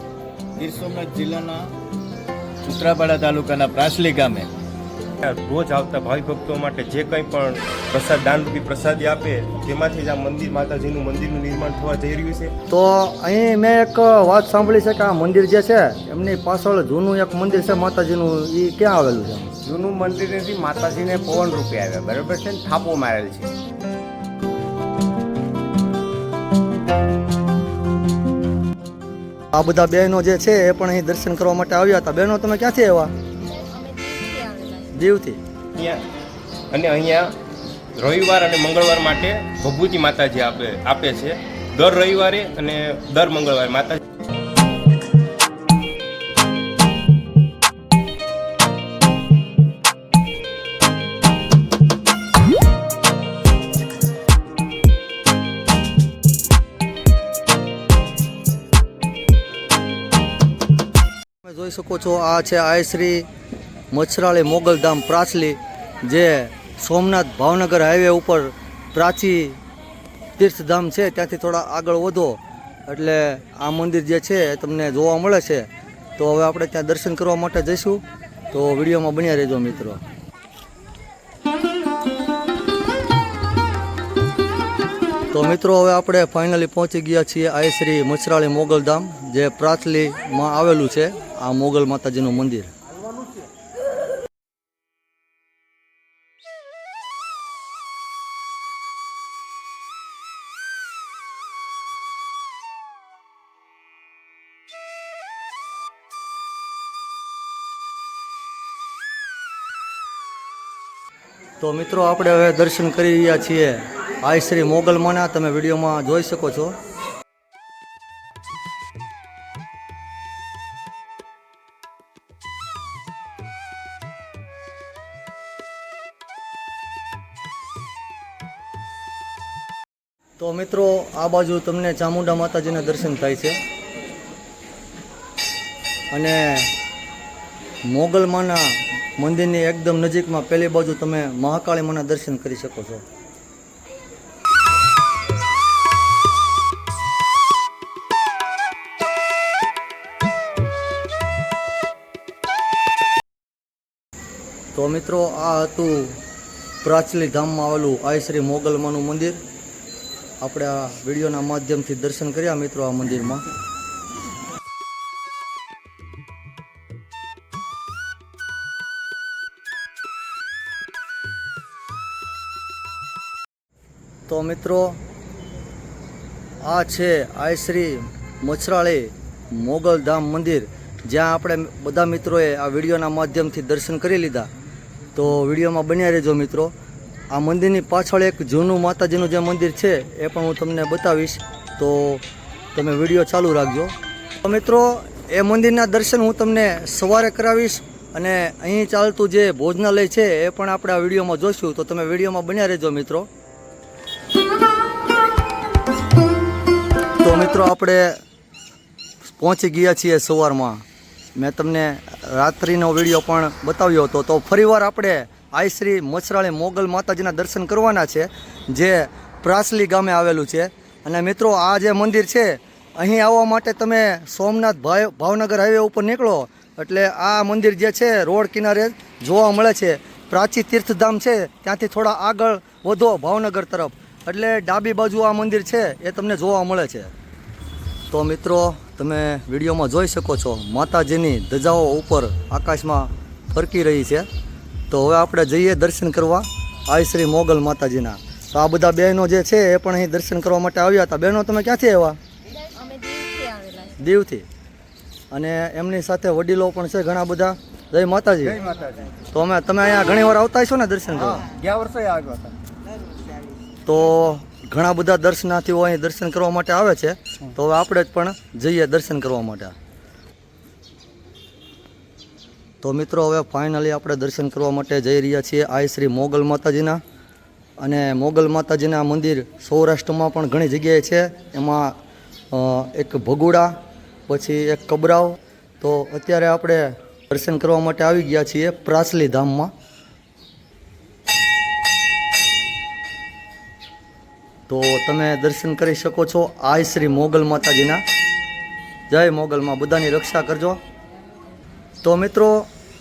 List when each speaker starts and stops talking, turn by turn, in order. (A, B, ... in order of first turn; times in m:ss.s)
0:00.6-0:01.7 A
0:02.6-0:04.5 A
0:05.2-0:12.5 B
0:12.7-0:19.5 C
0:19.6-0:23.5 D
0:29.5-0:33.1 C
0:33.4-0:34.9 E
0:34.9-0:35.4 C
0:35.8-0:36.0 B
0:36.7-0:37.3 B
0:38.0-0:44.0 B
1:01.4-1:03.3 C
1:03.9-1:09.6 C
1:10.4-1:15.7 C
1:16.2-1:20.0 C
1:25.3-1:32.7 C
1:51.6-1:56.8 C
2:10.4-2:13.6 C
2:16.1-2:16.7 C
2:17.9-2:23.0 C
2:34.7-2:36.2 C
2:36.8-2:39.4 C
2:40.4-2:43.4 C
2:54.3-2:55.0 C
2:56.6-3:04.5 C
3:05.2-3:06.7 C
3:07.3-3:12.2 C
3:12.8-3:13.9 C
3:14.4-3:23.3 C
3:27.2-3:28.2 C
3:29.2-3:30.8 C
3:31.4-3:57.1 C
3:58.1-4:04.3 C
4:04.9-4:12.2 C
4:12.6-4:14.0 E
4:14.0-4:14.5 C
4:15.3-4:18.6 C
4:18.4-4:19.1 D
4:19.3-4:21.4 C
4:21.2-4:22.5 D
4:23.9-4:29.7 C
4:32.8-4:37.0 C
4:37.8-4:42.0 C
4:42.5-4:43.8 C
4:44.3-4:49.7 C
4:54.7-4:58.0 C
4:59.1-5:00.8 C
5:02.0-5:02.7 C